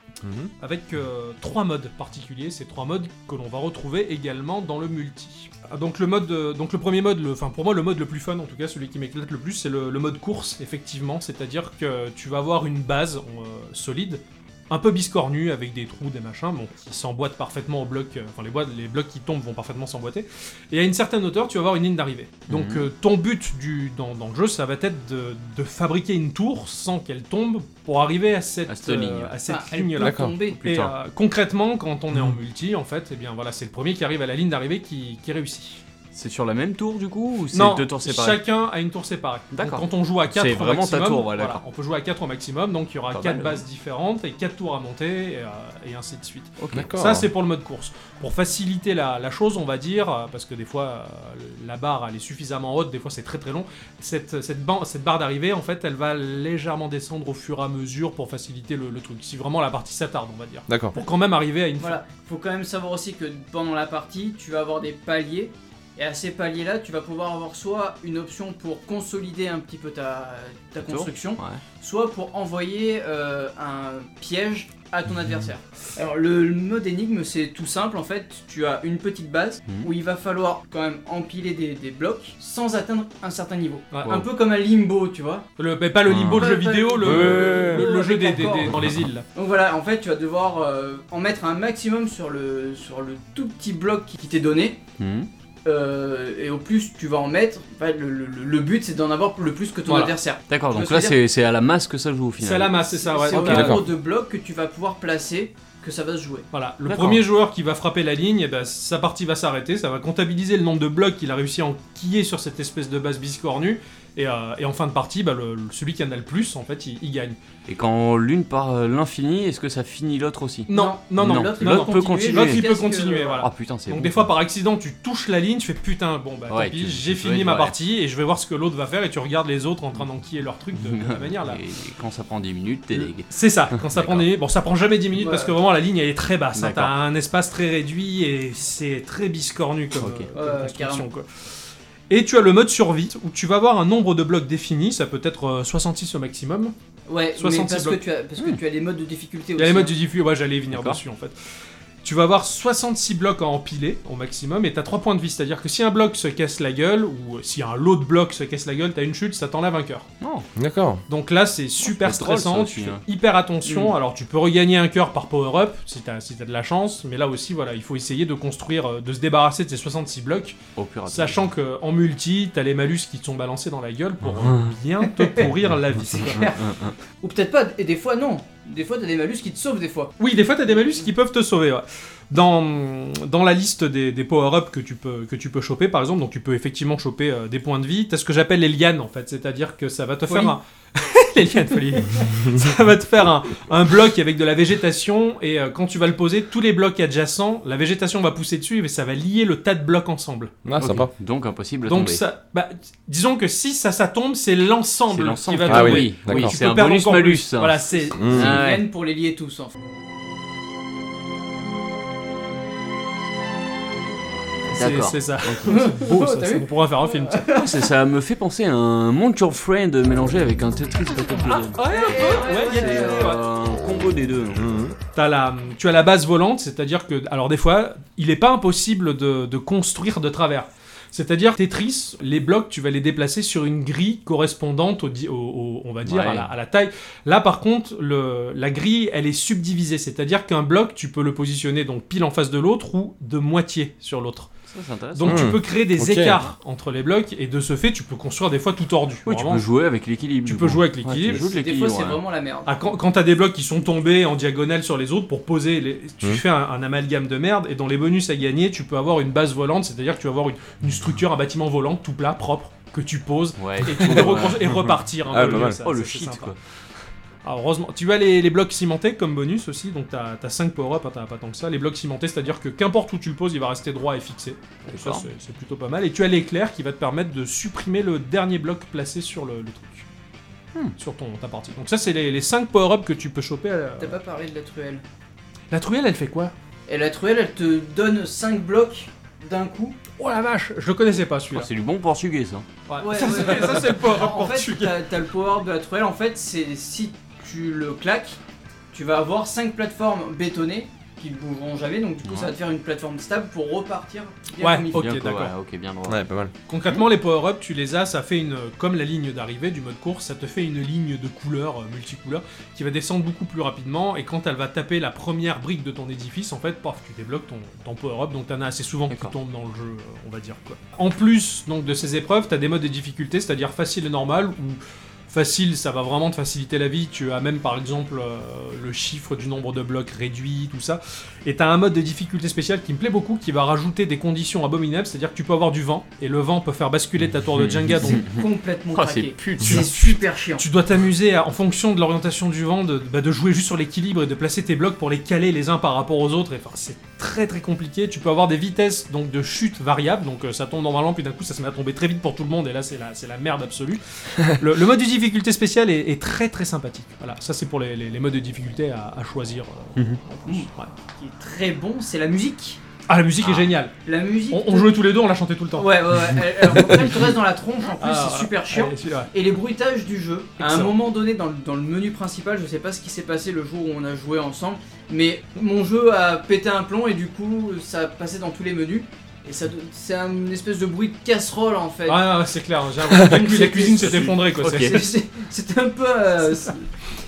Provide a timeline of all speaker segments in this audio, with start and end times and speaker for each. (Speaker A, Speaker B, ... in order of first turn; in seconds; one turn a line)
Speaker A: 0.2-0.5
Speaker B: 0.6-35.8
Speaker C: 22.5-22.9
Speaker C: 28.7-29.3
Speaker D: 29.5-30.6
Speaker A: 30.0-30.3
Speaker C: 30.5-30.9
Speaker C: 36.1-38.4
Speaker B: 37.5-62.0
Speaker C: 39.5-41.6
Speaker C: 43.1-43.6
Speaker C: 46.6-46.9
Speaker A: 46.7-47.3
Speaker A: 60.7-61.0
Speaker D: 61.8-85.5
Speaker C: 70.8-71.6
Speaker B: 83.9-84.2
Speaker B: 85.6-89.2
Speaker C: 86.1-86.4
Speaker D: 86.1-94.8
Speaker A: 87.0-87.8
Speaker C: 95.0-95.3
Speaker D: 95.6-101.2
Speaker B: 99.9-100.1
Speaker C: 100.5-102.8
Speaker B: 102.4-103.9
Speaker D: 102.8-106.5
Speaker A: 103.3-103.8
Speaker B: 106.5-117.4
Speaker C: 106.9-107.2
Speaker C: 117.7-122.7
Speaker B: 120.7-131.6
Speaker D: 120.7-123.5
Speaker C: 123.4-124.3
Speaker C: 126.5-127.7
Speaker C: 130.7-134.3
Speaker B: 132.9-141.3
Speaker D: 135.1-135.6
Speaker C: 136.6-136.9
Speaker C: 140.0-140.3
Speaker D: 140.3-141.1
Speaker B: 142.1-146.7
Speaker D: 147.1-149.9
Speaker B: 147.3-148.0
Speaker B: 149.6-151.3
Speaker C: 150.7-151.0
Speaker B: 152.0-160.1
Speaker C: 160.2-160.5
Speaker A: 160.6-161.0
Speaker B: 161.1-176.4
Speaker C: 161.8-163.0
Speaker C: 170.8-171.4
Speaker C: 174.2-174.7
Speaker D: 175.2-175.4
Speaker D: 176.1-180.1
Speaker C: 176.3-176.9
Speaker B: 180.2-200.5
Speaker D: 190.3-190.5
Speaker A: 200.6-201.1
Speaker C: 200.8-202.2
Speaker B: 201.8-208.2
Speaker C: 205.1-207.8
Speaker A: 205.7-206.6
Speaker A: 208.2-208.6
Speaker C: 208.3-208.8
Speaker D: 208.3-209.7
Speaker B: 214.7-217.5
Speaker C: 214.8-215.8
Speaker D: 215.6-217.8
Speaker C: 217.5-224.6
Speaker B: 221.4-223.4
Speaker D: 221.8-223.4
Speaker A: 224.5-224.9
Speaker B: 225.1-244.5
Speaker C: 236.1-236.5
Speaker C: 244.7-245.5
Speaker B: 245.1-249.6
Speaker A: 245.2-246.4
Speaker C: 249.3-252.2
Speaker B: 250.4-251.4
Speaker D: 251.3-252.8
Speaker B: 252.7-266.5
Speaker C: 263.6-266.6
Speaker A: 264.7-265.8
Speaker B: 267.4-280.1
Speaker C: 274.9-275.2
Speaker B: 281.0-284.2
Speaker D: 284.0-285.0
Speaker B: 285.7-286.5
Speaker D: 286.9-290.0
Speaker B: 290.2-291.7
Speaker C: 291.5-292.6
Speaker B: 292.9-295.0
Speaker D: 293.0-298.4
Speaker D: 298.9-305.1
Speaker C: 302.2-302.5
Speaker B: 304.6-305.5
Speaker C: 304.9-306.2
Speaker A: 306.1-306.5
Speaker B: 306.7-338.2
Speaker C: 337.5-339.9
Speaker D: 338.3-340.6
Speaker B: 339.6-360.9
Speaker D: 360.4-362.8
Speaker B: 363.1-363.9
Speaker D: 364.0-364.9
Speaker B: 364.5-366.0
Speaker D: 365.8-382.4
Speaker B: 368.0-369.3
Speaker B: 370.6-370.9
Speaker B: 382.1-385.1
Speaker D: 383.1-386.9
Speaker C: 384.0-385.1